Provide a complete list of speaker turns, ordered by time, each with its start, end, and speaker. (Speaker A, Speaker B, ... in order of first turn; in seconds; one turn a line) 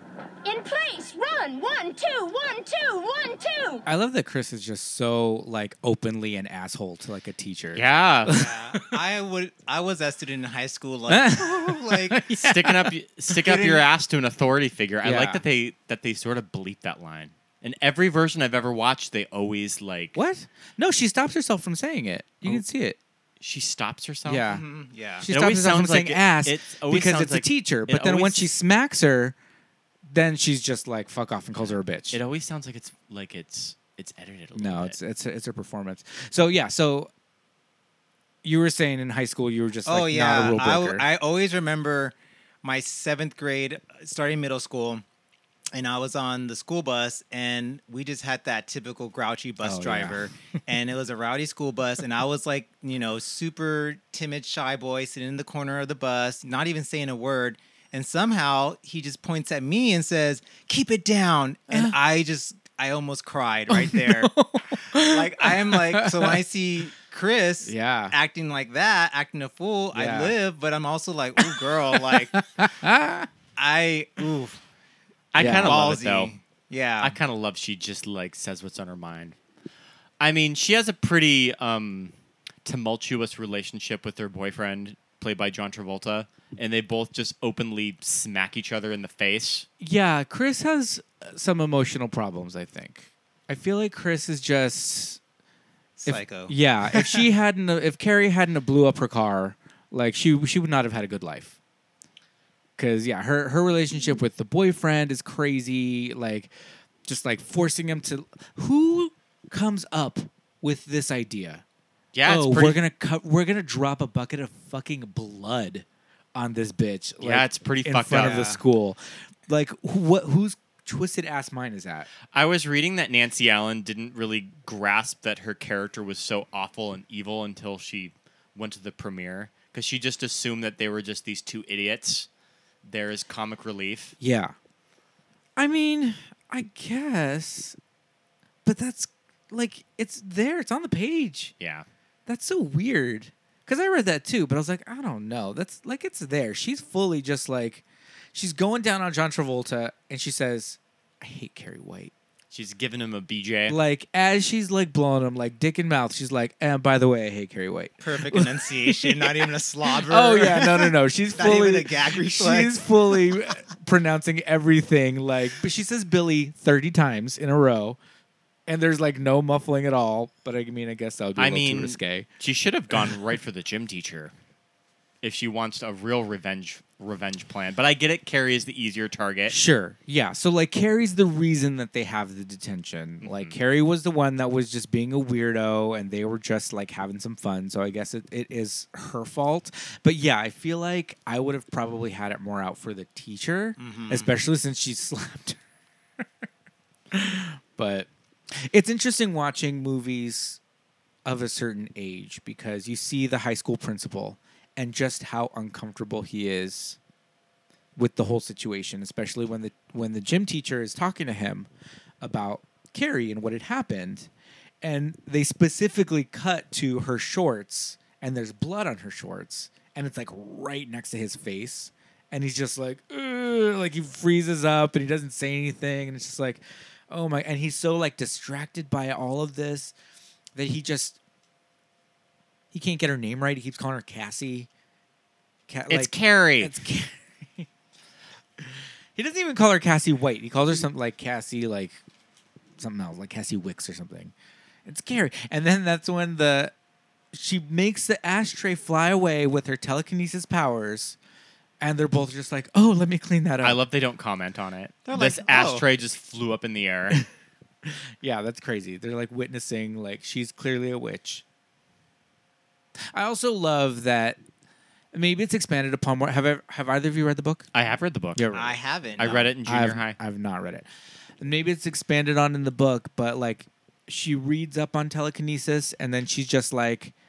Speaker A: 0.4-3.8
Speaker B: 3.9-8.9
Speaker C: 7.7-8.3
Speaker D: 8.3-12.2
Speaker B: 11.1-12.9
Speaker C: 12.3-20.2
Speaker B: 13.5-13.7
Speaker B: 15.0-15.4
Speaker B: 20.1-23.0
Speaker C: 23.4-24.5
Speaker B: 24.2-24.6
Speaker D: 24.5-25.3
Speaker B: 25.2-29.4
Speaker C: 25.3-28.5
Speaker B: 30.1-32.2
Speaker C: 31.6-35.0
Speaker B: 34.5-37.1
Speaker B: 38.4-41.0
Speaker D: 39.9-45.0
Speaker D: 45.7-64.3
Speaker B: 49.6-50.3
Speaker B: 61.7-62.0
Speaker B: 63.7-66.4
Speaker D: 64.9-72.4
Speaker B: 67.6-68.1
Speaker B: 69.9-70.3
Speaker B: 71.4-73.3
Speaker D: 73.5-74.6
Speaker C: 75.3-76.3
Speaker B: 75.4-76.0
Speaker D: 75.4-77.2
Speaker C: 77.0-79.4
Speaker C: 80.2-82.1
Speaker C: 82.6-89.7
Speaker B: 89.8-95.2
Speaker D: 96.0-97.2
Speaker B: 96.0-101.6
Speaker B: 102.8-106.5
Speaker B: 107.0-111.6
Speaker C: 112.1-112.8
Speaker B: 112.2-122.1
Speaker C: 117.2-118.5
Speaker D: 118.1-118.6
Speaker C: 122.3-132.3
Speaker C: 132.8-134.2
Speaker B: 134.2-134.5
Speaker B: 135.6-137.8
Speaker B: 138.6-141.5
Speaker C: 141.6-141.8
Speaker B: 142.3-152.1
Speaker C: 152.5-153.8
Speaker B: 153.7-168.0
Speaker D: 158.0-162.9
Speaker B: 168.7-172.3
Speaker C: 171.4-174.3
Speaker C: 175.2-179.6
Speaker B: 179.5-195.6
Speaker C: 183.2-183.6
Speaker D: 193.8-194.3
Speaker B: 197.1-200.6
Speaker B: 201.2-207.0
Speaker B: 207.9-211.7
Speaker B: 212.2-214.3
Speaker B: 214.8-229.9
Speaker B: 230.5-231.2
Speaker B: 232.7-234.7
Speaker B: 235.7-237.7
Speaker C: 235.9-236.8
Speaker B: 238.6-242.0
Speaker B: 242.8-244.3
Speaker B: 244.8-246.7
Speaker B: 247.3-251.2
Speaker B: 251.8-253.8
Speaker C: 253.6-257.2
Speaker D: 255.1-255.8
Speaker B: 257.8-261.4
Speaker B: 263.1-264.4
Speaker B: 265.1-267.7
Speaker C: 267.7-268.5
Speaker B: 268.3-270.9
Speaker D: 268.5-269.5
Speaker C: 269.2-270.2
Speaker B: 271.4-277.1